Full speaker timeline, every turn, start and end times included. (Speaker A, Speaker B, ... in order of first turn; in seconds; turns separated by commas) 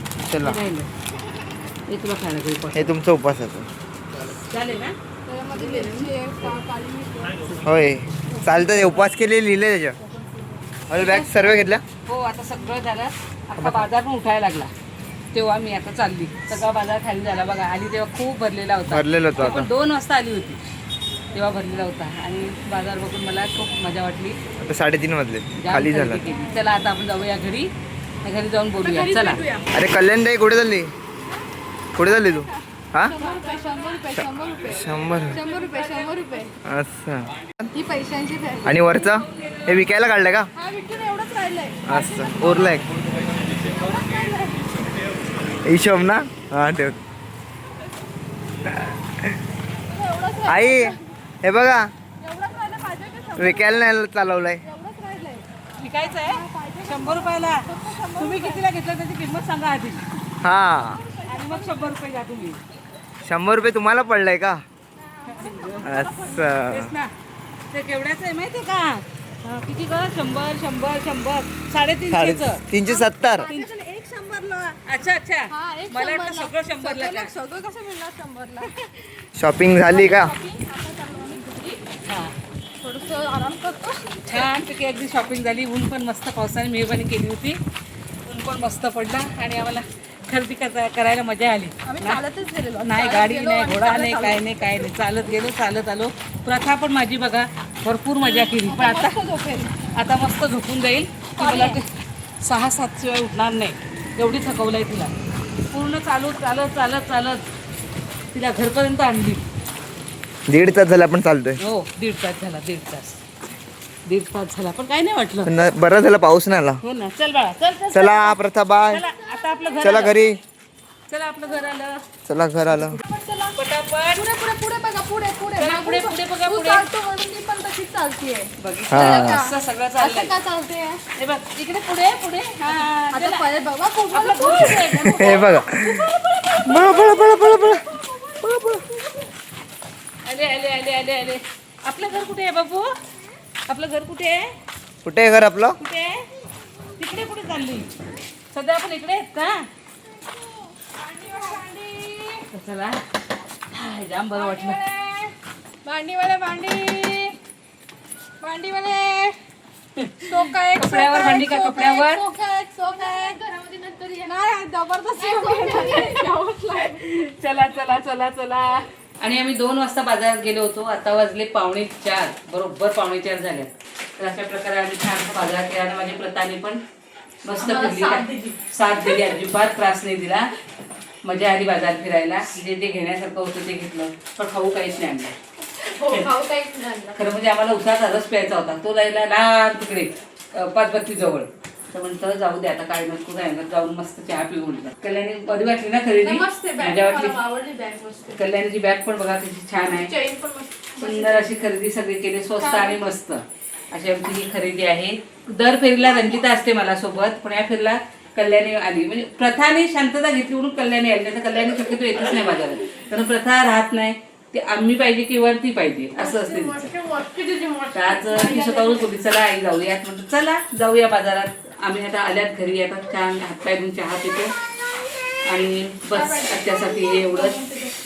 Speaker A: 0.2-0.6, Speaker B: 0.4-0.9, Speaker B: 1.9-2.9, Speaker A: 2.7-3.7, Speaker B: 4.3-5.0, Speaker C: 5.2-7.5, Speaker B: 5.5-6.1, Speaker A: 7.6-10.0, Speaker C: 8.4-8.7, Speaker A: 10.9-11.8, Speaker B: 10.9-14.7, Speaker A: 13.6-13.9, Speaker B: 15.3-20.6, Speaker A: 18.9-19.7, Speaker B: 21.3-24.4, Speaker A: 24.6-26.2, Speaker B: 25.6-27.7, Speaker B: 28.2-29.4, Speaker C: 28.8-29.7, Speaker A: 29.7-30.9, Speaker A: 31.9-33.2, Speaker C: 32.3-36.5, Speaker A: 34.7-35.4, Speaker A: 36.6-37.3, Speaker C: 37.7-38.8, Speaker A: 38.6-40.5, Speaker C: 40.5-42.8, Speaker A: 41.9-42.9, Speaker C: 43.5-44.8, Speaker A: 45.6-47.0, Speaker A: 48.6-49.4, Speaker C: 49.9-51.0, Speaker A: 50.5-51.9, Speaker C: 52.2-53.8, Speaker A: 53.4-54.6, Speaker C: 54.6-55.5, Speaker B: 55.8-60.1, Speaker C: 56.1-58.6, Speaker A: 60.4-61.0, Speaker C: 60.8-61.9, Speaker B: 61.3-62.6, Speaker A: 63.2-64.6, Speaker C: 65.0-66.5, Speaker B: 65.3-65.9, Speaker A: 65.8-66.9, Speaker B: 66.5-67.1, Speaker B: 67.7-72.6, Speaker A: 72.1-73.5, Speaker C: 72.8-74.8, Speaker B: 73.4-73.7, Speaker B: 74.8-77.3, Speaker C: 75.5-79.2, Speaker A: 79.3-80.3, Speaker C: 79.8-81.8, Speaker B: 82.0-82.3, Speaker C: 82.8-84.5, Speaker B: 84.2-87.6, Speaker B: 88.2-92.2, Speaker C: 91.8-94.4, Speaker B: 92.8-99.2, Speaker C: 98.2-99.7, Speaker B: 99.9-101.8, Speaker C: 101.4-101.8, Speaker B: 102.4-105.1, Speaker B: 105.7-107.4, Speaker B: 108.3-109.4, Speaker A: 110.5-111.6, Speaker B: 111.6-113.2, Speaker B: 114.0-115.6, Speaker A: 115.4-116.8, Speaker B: 116.8-120.2, Speaker A: 117.9-119.0, Speaker C: 119.1-119.8, Speaker A: 119.8-120.4, Speaker B: 121.1-122.0, Speaker A: 122.2-123.0, Speaker C: 122.8-123.6, Speaker B: 123.5-124.2, Speaker C: 124.1-131.0, Speaker B: 125.5-126.8, Speaker B: 128.6-130.3, Speaker A: 128.9-129.4, Speaker B: 131.2-133.4, Speaker C: 132.0-139.0, Speaker B: 134.1-135.5, Speaker A: 135.2-136.1, Speaker A: 136.6-137.8, Speaker A: 138.4-138.7, Speaker B: 140.2-142.9, Speaker B: 143.7-144.5, Speaker A: 145.0-145.8, Speaker B: 145.8-146.2, Speaker B: 147.0-147.9, Speaker B: 148.5-149.7, Speaker C: 150.8-152.5, Speaker B: 152.5-153.0, Speaker B: 153.7-154.8, Speaker C: 154.3-155.3, Speaker C: 155.8-157.3, Speaker C: 158.4-159.4, Speaker B: 159.9-162.2, Speaker C: 160.2-167.0, Speaker B: 165.1-176.8, Speaker B: 177.4-180.5, Speaker C: 177.6-178.6, Speaker B: 181.2-185.3, Speaker C: 185.8-187.2, Speaker B: 187.1-197.4, Speaker C: 196.2-198.4, Speaker B: 198.3-200.1, Speaker C: 199.9-201.4, Speaker B: 200.9-216.9, Speaker C: 202.6-203.1, Speaker C: 216.2-219.1, Speaker B: 217.9-224.5, Speaker B: 225.4-227.6, Speaker C: 226.1-227.9